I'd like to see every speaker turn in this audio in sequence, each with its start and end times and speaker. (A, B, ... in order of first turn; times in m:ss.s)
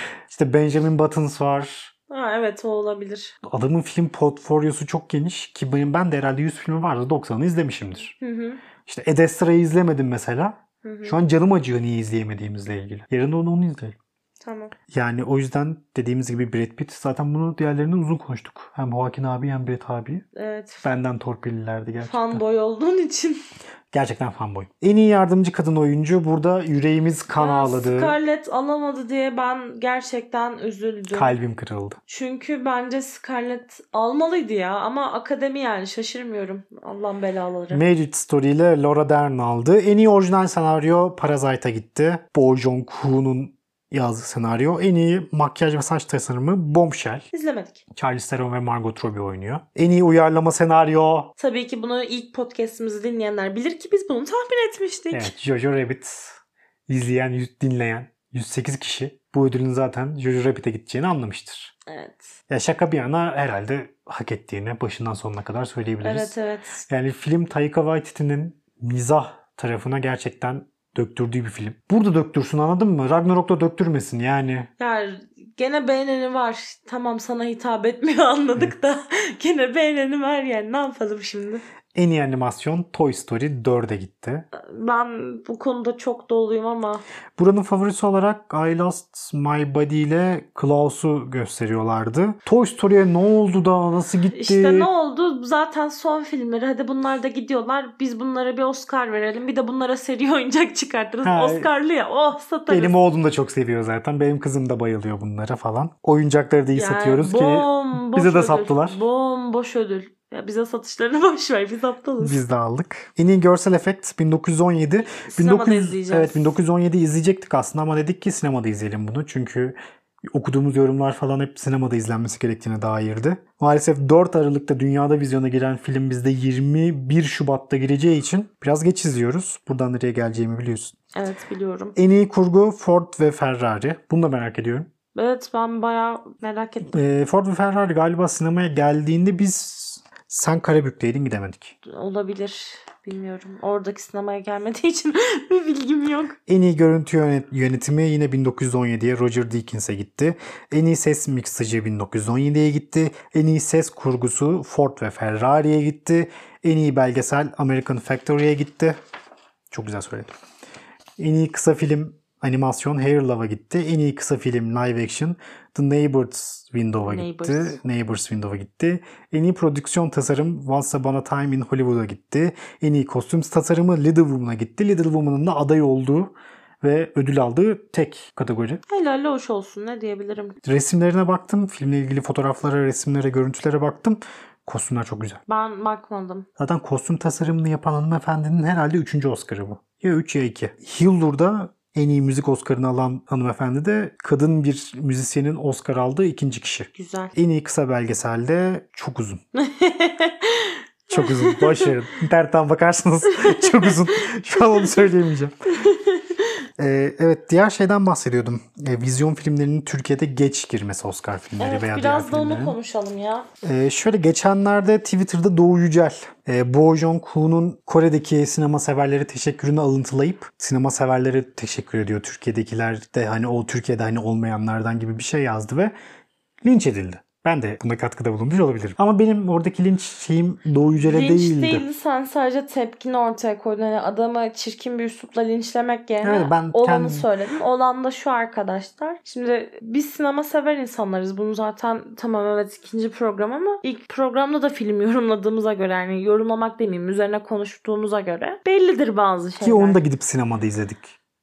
0:00.3-0:01.9 A
0:02.1-0:03.3 B
0:03.4-0:08.1 A
0:08.2-0:08.6 B
0:08.8-0:14.0 A
0:10.8-0:11.2 B
0:14.4-0:14.7 B
0:14.9-0:20.2 A
0:20.3-0:20.9 B
0:20.8-0:22.4 A
0:22.0-0:23.4 B
0:23.9-0:28.2 A
0:27.3-0:31.3 B
0:31.1-0:32.0 A
0:32.1-0:37.8 B
0:37.7-0:47.3 A
0:47.3-0:47.8 B
0:47.9-0:51.3 A
0:51.4-0:55.3 B
0:55.1-1:01.7 A
1:01.9-1:02.4 B
1:02.5-1:06.3 A
1:06.0-1:06.8 B
1:06.9-1:14.7 A
1:14.8-1:21.6 B
1:21.9-1:24.4 A
1:24.5-1:27.0 B
1:27.4-1:34.9 A
1:34.3-1:42.9 B
1:41.2-1:41.7 A
1:42.7-1:49.0 A
1:46.7-1:52.4 B
1:52.2-1:59.8 A
1:55.1-1:56.4 B
2:00.3-2:10.9 A
2:11.1-2:11.9 B
2:12.0-2:14.9 A
2:15.1-2:17.0 B
2:16.9-2:21.7 A
2:21.8-2:26.4 B
2:26.5-2:39.0 A
2:39.7-2:40.3 A
2:41.2-2:58.8 A
2:47.0-2:47.8 B
2:58.9-3:00.6 B
3:00.6-3:05.4 A
3:05.5-3:06.4 B
3:06.6-3:19.4 A
3:16.9-3:17.3 B
3:19.5-3:21.9 B
3:21.1-3:25.5 A
3:23.3-3:25.1 B
3:25.7-3:26.5 B
3:26.8-3:32.8 A
3:31.6-3:33.5 B
3:33.6-3:45.9 A
3:46.6-3:51.8 A
3:51.0-4:10.0 B
3:56.2-3:57.3 A
4:09.6-4:11.1 A